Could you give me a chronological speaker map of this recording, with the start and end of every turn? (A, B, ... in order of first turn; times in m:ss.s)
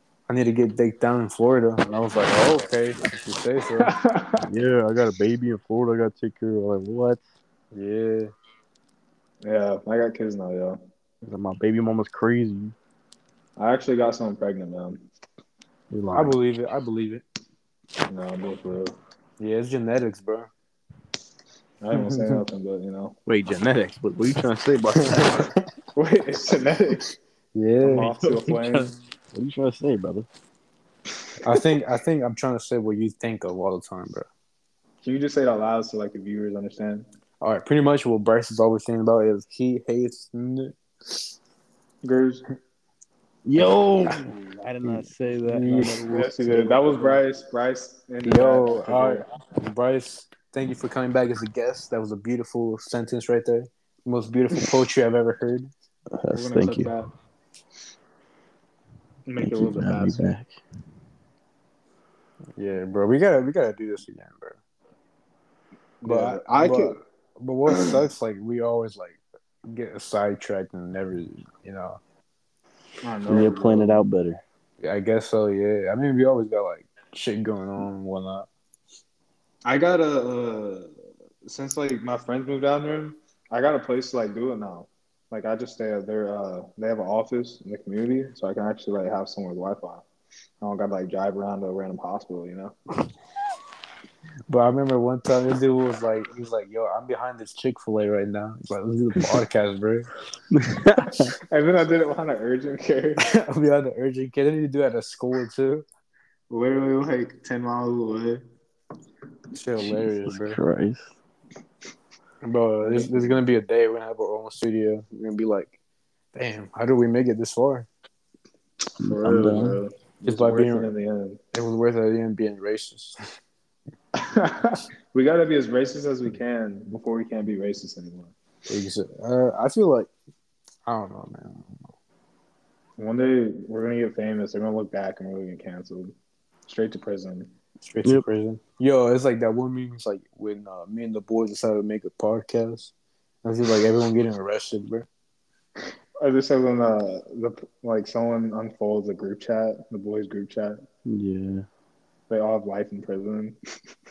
0:00.3-0:03.9 A
0:03.8-0:04.4 B
0:04.4-0:07.3 C
0:07.7-0:08.3 A
0:09.4-0:10.8 B
0:11.2-0:12.8 C
0:13.6-0:15.0 B
0:15.9-0:16.4 C
0:16.1-0:17.2 A
0:18.1-0:19.0 B
0:19.4-0:20.5 A
0:21.8-0:23.2 B
0:21.9-0:22.4 A
0:23.3-0:25.5 C
0:24.9-0:25.6 A
0:26.0-0:27.1 B
0:27.5-0:28.1 A
0:27.8-0:28.9 B
0:28.0-0:30.3 C
0:31.4-0:34.3 A
0:35.0-0:37.1 B
0:37.4-0:41.2 A
0:42.0-0:42.4 B
0:43.5-0:47.2 C
0:44.8-0:46.3 A
0:46.1-0:49.3 B
0:48.2-0:55.7 A
0:56.2-0:56.9 C
0:56.3-0:57.1 B
0:59.3-1:00.3 B
0:59.4-1:00.5 C
1:02.6-1:04.6 A
1:06.0-1:07.0 B
1:06.0-1:12.0 A
1:13.0-1:14.0 B
1:13.3-1:14.4 C
1:14.8-1:18.5 A
1:19.6-1:20.9 B
1:21.5-1:30.0 B
1:30.6-1:32.8 B
1:34.5-1:40.1 A
1:40.5-1:41.3 C
1:41.5-1:43.3 B
1:43.2-1:45.8 A
1:46.5-1:48.4 B
1:49.5-1:50.6 A
1:49.8-1:51.1 C
1:52.4-1:55.8 A
1:52.8-1:53.4 B
1:56.3-1:57.9 A
1:59.0-1:59.8 C
1:59.0-2:01.4 B
2:00.2-2:00.9 A
2:01.5-2:03.2 A
2:04.2-2:08.3 B
2:08.7-2:10.1 A
2:10.9-2:11.9 A
2:13.0-2:17.5 B
2:17.8-2:22.9 A
2:23.4-2:25.1 A
2:26.2-2:30.8 B
2:31.1-2:31.7 C
2:32.3-2:33.6 B